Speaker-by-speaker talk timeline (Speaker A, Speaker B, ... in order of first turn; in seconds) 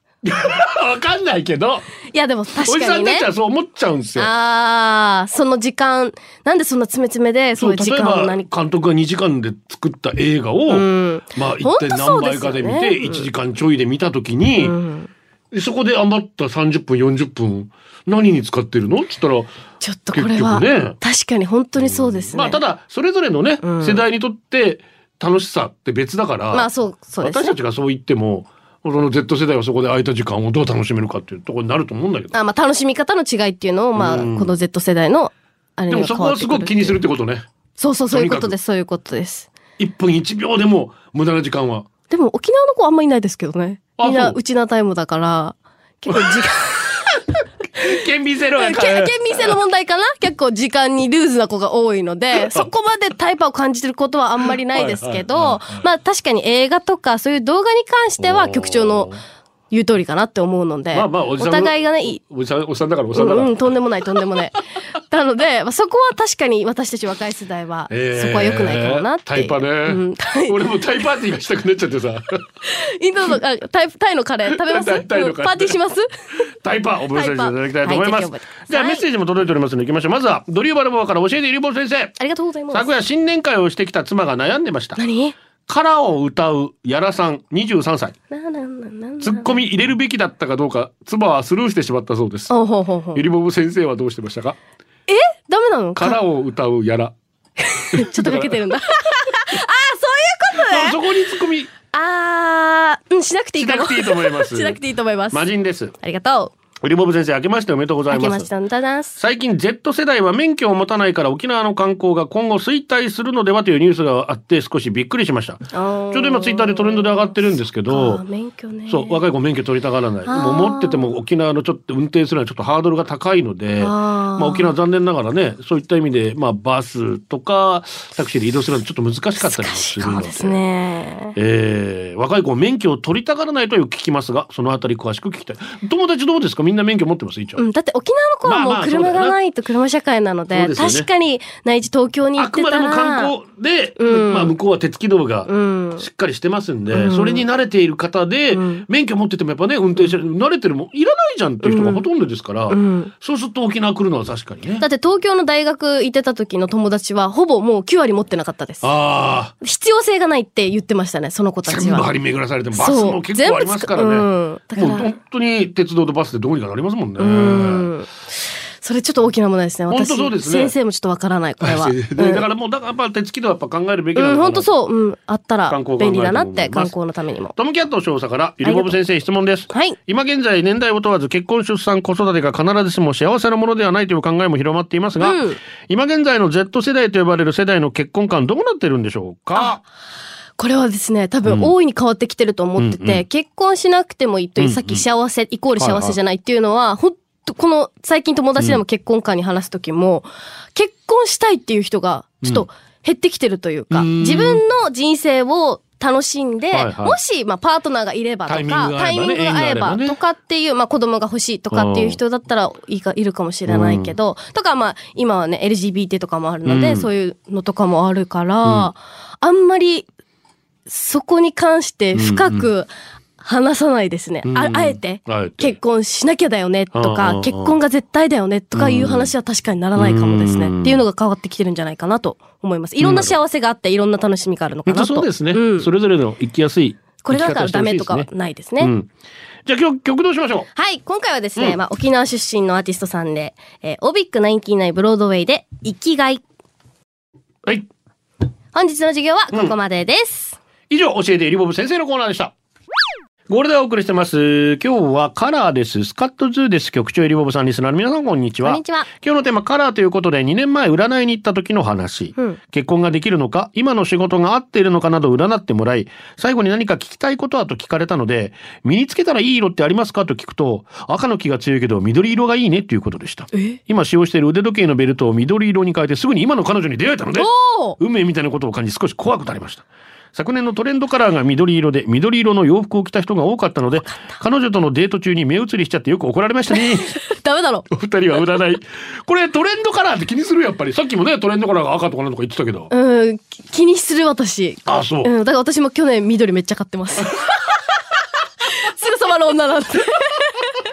Speaker A: 0.2-1.9, 2.6-4.3, 7.5-14.8, 15.5-19.5, 20.1-21.0, 21.8-26.7, 27.2-32.3, 33.9-34.5, 35.9-37.5, 38.1-38.5, 39.8-41.9, 44.0-44.4, 46.1-46.4, 47.8-49.5, 52.4-52.7, 54.7-55.8, 58.2-59.2, 60.9-63.6, 67.9-72.4, 74.5-75.8, 76.6-82.2, 82.7-85.0, 85.7-88.2, 89.2-92.5, 93.1-94.6, 96.0-97.1, 97.9-98.6, 100.5-101.7, 103.6-104.8, 105.3-105.9, 106.8-108.5, 109.2-118.2, 118.9-130.6, 131.3-137.6, 138.4-139.4, 140.5-141.1, 142.3-154.8, 158.8-159.5, 161.7-167.9, 169.9-170.7, 171.6-174.7, 175.7-176.9, 177.6-189.8, 191.4-191.7, 192.8-193.2, 194.6-195.0, 195.8-196.2, 203.9-204.6, 206.7-207.2, 208.5-210.2, 211.7-212.2, 213.7-214.1, 216.6-217.1, 218.6-218.9, 222.1-222.7, 224.4-225.8, 226.9-227.7, 228.7-229.3, 229.9-231.0, 233.0-233.3, 234.8-238.3, 238.8-239.1, 239.6-240.7, 250.9-252.5, 253.5-287.2, 287.9-292.9, 294.8-295.3
Speaker B: 2.1-3.3, 4.2-8.5, 10.7-13.3, 14.6-15.1, 19.8-22.6, 23.6-24.0, 26.5-27.6, 32.3-37.0, 37.8-39.5, 42.1-47.0, 48.5-59.1, 59.7-62.2, 63.1-64.6, 65.1-70.6, 72.6-76.1, 77.1-79.0, 82.2-82.9, 85.0-85.3, 88.3-89.6, 92.5-93.2, 95.1-96.2, 97.6-101.0, 101.9-105.5, 106.0-106.5, 108.1-109.2, 115.7-117.1, 117.9-119.2, 120.2-121.1, 123.8-124.7, 129.4-131.3, 137.6-143.3, 144.0-144.5, 145.4-146.1, 146.9-147.4, 148.5-148.8, 151.6-152.0, 152.7-153.1, 154.8-158.9, 159.6-162.1, 162.7-165.1, 167.2-168.1, 168.8-172.4, 174.2-177.5, 178.6-179.0, 179.7-180.0, 185.2-185.6, 190.6-220.1, 220.9-235.9, 237.2-238.9, 240.7-246.4, 248.7-250.6, 258.6-259.1, 273.5-273.8, 277.4-278.0, 286.8-287.9, 292.9-297.5, 298.6-300.7